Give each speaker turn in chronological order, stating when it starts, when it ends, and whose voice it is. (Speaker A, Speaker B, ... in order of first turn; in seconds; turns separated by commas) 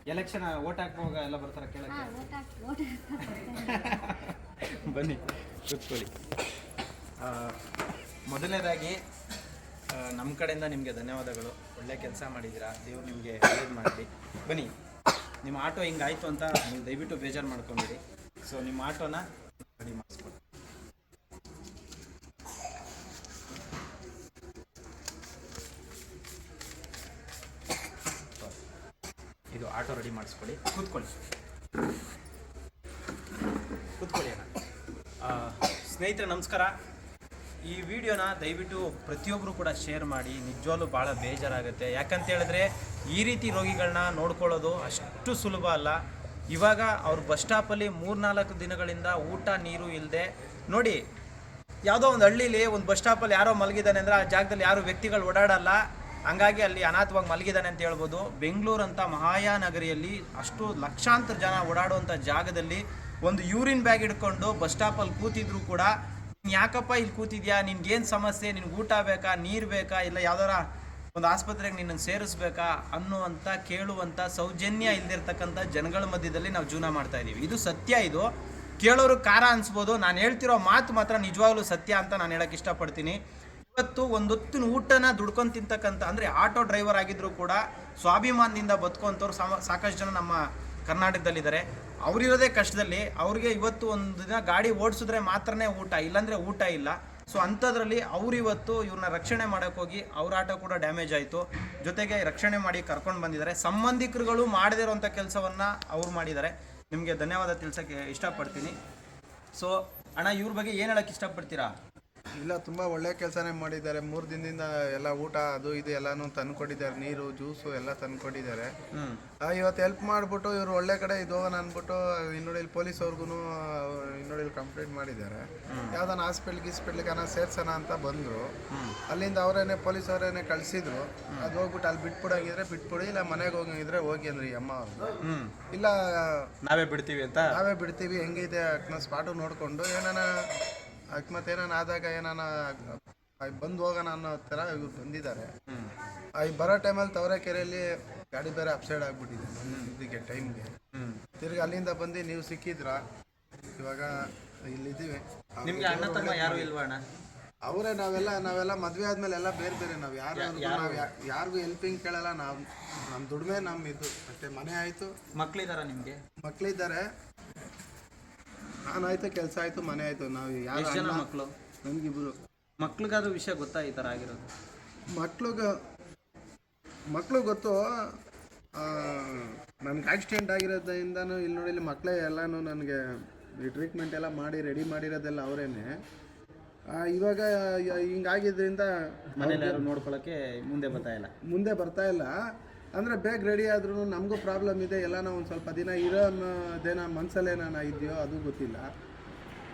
Speaker A: 0.1-2.1, Speaker B: 1.9-4.0, Speaker A: 3.4-6.1, Speaker A: 7.2-7.6, Speaker A: 8.3-9.0, Speaker A: 9.9-14.7, Speaker A: 15.4-19.2, Speaker A: 19.8-20.4, Speaker A: 29.5-31.1, Speaker A: 34.0-34.5, Speaker A: 35.2-36.7, Speaker A: 37.6-51.0, Speaker A: 51.9-78.3, Speaker A: 78.8-83.2, Speaker A: 83.7-108.8, Speaker A: 109.5-111.7, Speaker C: 112.4-118.7, Speaker A: 118.9-119.2, Speaker C: 119.4-128.5, Speaker A: 125.7-126.0, Speaker A: 128.7-129.0, Speaker C: 129.1-136.5, Speaker A: 135.2-135.6, Speaker A: 136.7-137.5, Speaker C: 137.5-140.3, Speaker C: 141.1-145.5, Speaker A: 145.7-145.9, Speaker C: 146.4-150.8, Speaker A: 149.7-149.9, Speaker A: 150.9-151.2, Speaker C: 151.4-153.0, Speaker C: 153.8-154.2, Speaker C: 154.7-156.7, Speaker A: 155.7-157.0, Speaker C: 157.6-165.1, Speaker A: 160.3-161.1, Speaker A: 165.3-166.2, Speaker C: 166.4-167.0, Speaker C: 168.9-171.3, Speaker A: 170.7-171.5, Speaker C: 171.8-172.4, Speaker A: 172.8-174.5, Speaker C: 175.1-175.8, Speaker C: 177.1-178.1, Speaker C: 178.8-183.0, Speaker C: 183.6-185.9, Speaker C: 186.9-189.9, Speaker A: 189.4-191.3, Speaker C: 191.4-192.3, Speaker C: 192.9-198.9